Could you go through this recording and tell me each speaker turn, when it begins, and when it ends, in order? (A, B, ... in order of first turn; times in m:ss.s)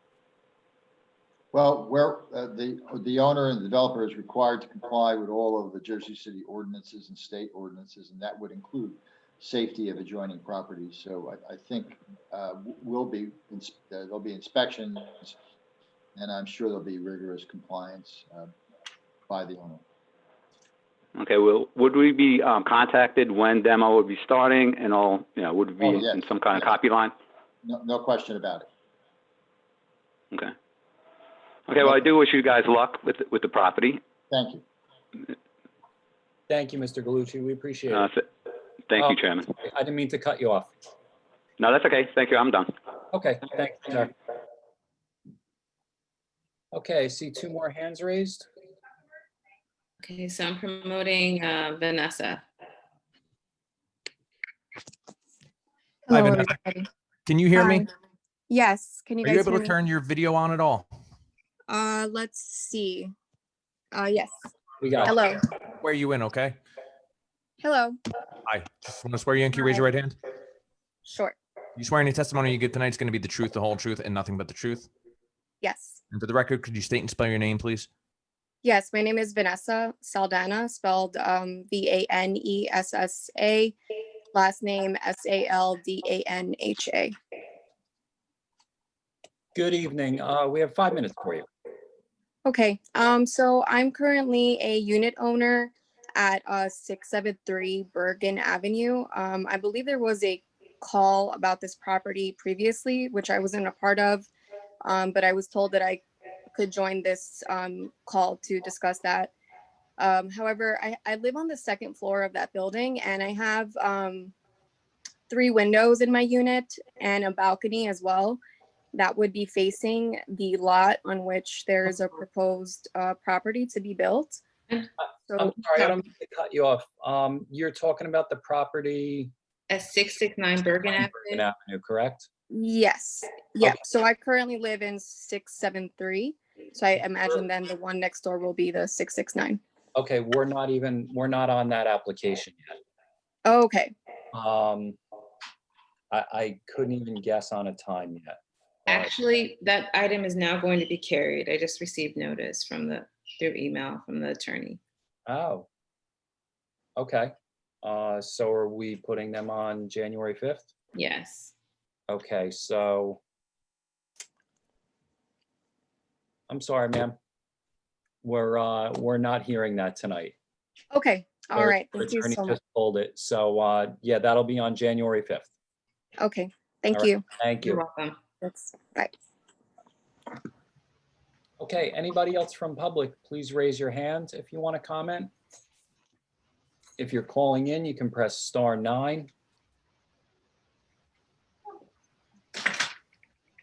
0:01.5-0:15.3 A
0:16.2-0:18.5 A
0:19.3-0:19.8 A
0:21.2-0:27.1 B
0:25.8-0:26.7 A
0:27.6-0:28.7 A
0:31.7-0:34.0 B
0:34.3-0:34.6 A
0:36.5-0:38.1 C
0:37.9-0:38.2 B
0:38.9-0:39.5 B
0:39.0-0:40.7 C
0:41.6-0:42.7 B
0:43.1-0:44.1 C
0:46.7-0:48.4 C
0:50.0-0:52.4 D
0:56.1-0:56.9 E
0:56.1-0:56.5 F
0:57.2-0:57.8 F
0:57.5-0:57.9 E
0:58.5-0:59.8 E
0:59.2-1:00.9 F
1:01.7-1:03.1 E
1:03.9-1:04.3 E
1:04.8-1:05.1 C
1:05.0-1:05.4 E
1:05.8-1:06.6 F
1:07.6-1:08.0 E
1:08.4-1:10.2 F
1:11.0-1:11.4 E
1:11.8-1:14.9 F
1:15.6-1:16.0 E
1:16.1-1:17.9 F
1:18.6-1:23.7 E
1:24.3-1:27.1 E
1:29.5-1:31.5 C
1:32.4-1:44.3 E
1:44.8-1:46.0 E
1:46.5-1:49.3 E
1:50.0-1:54.3 E
1:55.3-1:58.4 E
1:58.9-2:04.4 E
2:05.2-2:05.9 E
2:05.4-2:09.3 C
2:09.7-2:11.4 D
2:11.0-2:12.3 C
2:12.5-2:19.6 E
2:20.0-2:22.8 C
2:23.4-2:23.9 E
2:24.3-2:25.0 C
2:26.1-2:29.1 C
2:28.9-2:34.8 D
2:35.3-2:35.7 C
2:37.0-2:40.7 C
2:40.9-2:41.5 D
2:42.1-2:43.2 C
2:46.5-2:47.2 C
2:48.2-2:50.3 C
2:50.9-2:52.6 E
2:51.5-2:55.5 C
2:56.2-2:57.2 E
2:56.9-2:57.8 C
2:57.6-2:58.2 D
2:58.4-2:59.1 E
3:01.6-3:05.3 C
3:07.0-3:09.3 C